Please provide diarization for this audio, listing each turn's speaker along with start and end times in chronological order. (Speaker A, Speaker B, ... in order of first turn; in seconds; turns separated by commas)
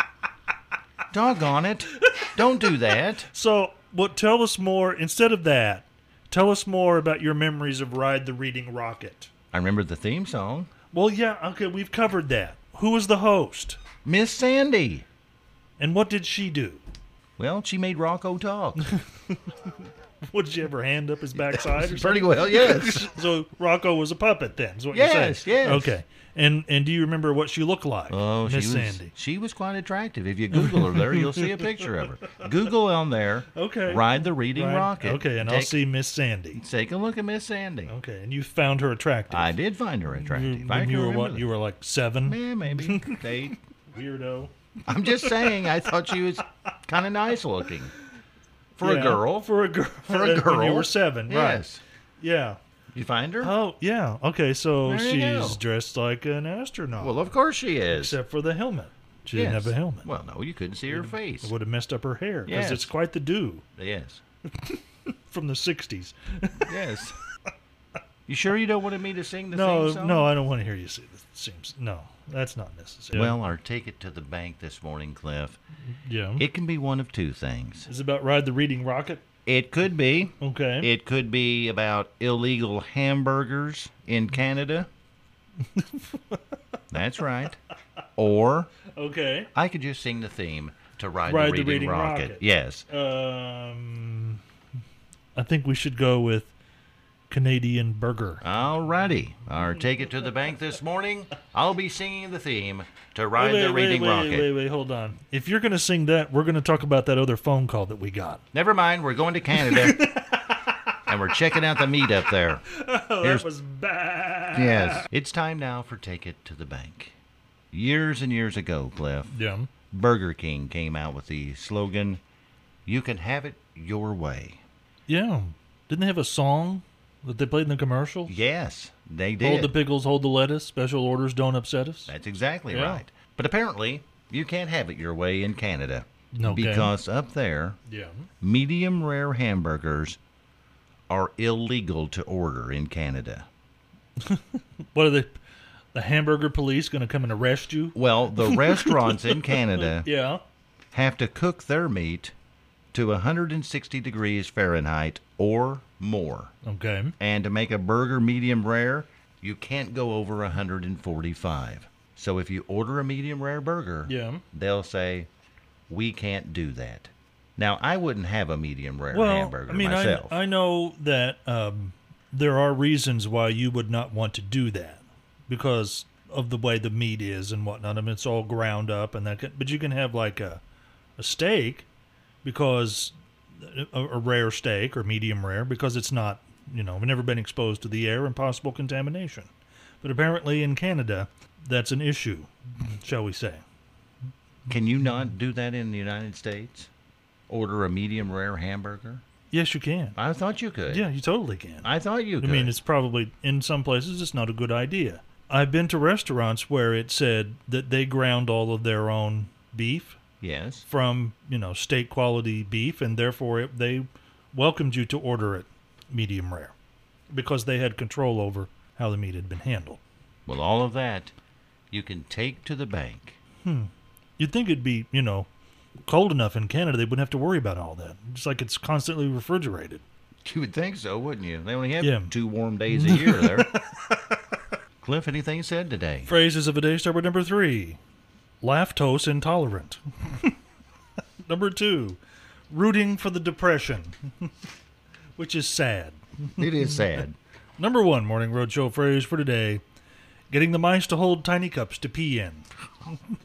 Speaker A: 1.1-3.3, Speaker B: 3.3-9.3, Speaker A: 9.5-10.7, Speaker B: 10.9-13.8, Speaker A: 14.1-15.1, Speaker B: 15.8-16.8, Speaker A: 17.4-18.9, Speaker B: 18.9-19.7, Speaker B: 20.3-29.1, Speaker A: 21.4-23.1, Speaker A: 24.9-25.9, Speaker A: 28.1-35.8, Speaker B: 30.5-32.3, Speaker B: 33.5-36.6, Speaker A: 36.6-37.9, Speaker B: 37.9-39.5, Speaker A: 39.3-41.5, Speaker B: 40.2-43.3, Speaker A: 42.2-43.6, Speaker B: 43.9-44.5, Speaker A: 44.9-47.9, Speaker B: 45.0-45.9, Speaker A: 48.8-49.5, Speaker B: 48.8-51.6, Speaker A: 50.0-51.8, Speaker B: 52.2-52.6, Speaker A: 52.9-53.5, Speaker B: 53.4-57.2, Speaker A: 54.9-55.6, Speaker A: 57.0-58.2, Speaker B: 57.9-60.1, Speaker A: 59.3-61.5, Speaker B: 60.9-63.6, Speaker A: 62.5-62.9, Speaker A: 63.8-64.2, Speaker B: 64.5-66.7, Speaker A: 66.7-67.2, Speaker A: 68.3-70.3, Speaker B: 69.5-73.4, Speaker A: 73.1-75.6, Speaker B: 76.0-76.4, Speaker A: 76.4-77.9, Speaker B: 77.9-79.2, Speaker A: 79.5-84.9, Speaker B: 80.4-80.9, Speaker B: 85.7-86.4, Speaker A: 86.9-87.6, Speaker A: 88.2-88.7, Speaker B: 88.9-89.5, Speaker A: 89.5-92.9, Speaker B: 91.3-94.4, Speaker B: 95.4-96.5, Speaker B: 97.3-98.4, Speaker A: 98.4-104.5, Speaker B: 103.4-108.4, Speaker A: 108.5-110.2, Speaker B: 109.5-110.8, Speaker A: 111.1-112.6, Speaker B: 112.7-115.1, Speaker A: 113.2-113.5, Speaker A: 114.5-117.2, Speaker A: 117.7-119.3, Speaker B: 119.3-119.7, Speaker A: 119.9-122.2, Speaker A: 122.9-124.6, Speaker B: 125.1-128.3, Speaker A: 128.3-129.7, Speaker B: 129.4-132.1, Speaker A: 132.1-137.8, Speaker B: 132.7-133.0, Speaker B: 136.3-136.9, Speaker B: 137.9-138.3, Speaker A: 138.4-140.2, Speaker A: 141.1-143.5, Speaker B: 144.2-145.3, Speaker B: 145.9-150.4, Speaker A: 147.9-150.1, Speaker A: 150.9-152.3, Speaker A: 152.9-156.5, Speaker B: 156.6-157.2, Speaker A: 157.2-165.3, Speaker B: 164.1-164.4, Speaker A: 165.9-170.4, Speaker B: 169.1-180.6, Speaker B: 181.2-181.9, Speaker B: 182.4-189.5, Speaker B: 190.0-193.6, Speaker A: 194.7-196.9, Speaker A: 197.5-199.2, Speaker B: 199.5-200.2, Speaker A: 200.2-201.1, Speaker B: 200.9-201.9, Speaker A: 201.8-202.8, Speaker B: 202.4-210.2, Speaker A: 210.4-210.8, Speaker B: 210.9-216.7, Speaker B: 217.3-220.0, Speaker A: 220.5-221.3, Speaker A: 221.9-223.4, Speaker B: 223.6-225.5, Speaker B: 226.1-230.0, Speaker A: 230.4-233.8, Speaker B: 232.0-232.3, Speaker B: 232.9-234.4, Speaker A: 235.0-236.3, Speaker B: 236.2-238.0, Speaker B: 238.6-240.6, Speaker B: 241.5-242.2, Speaker B: 242.7-244.5, Speaker B: 245.4-247.0, Speaker A: 246.6-247.4, Speaker B: 247.8-249.8, Speaker B: 250.5-252.7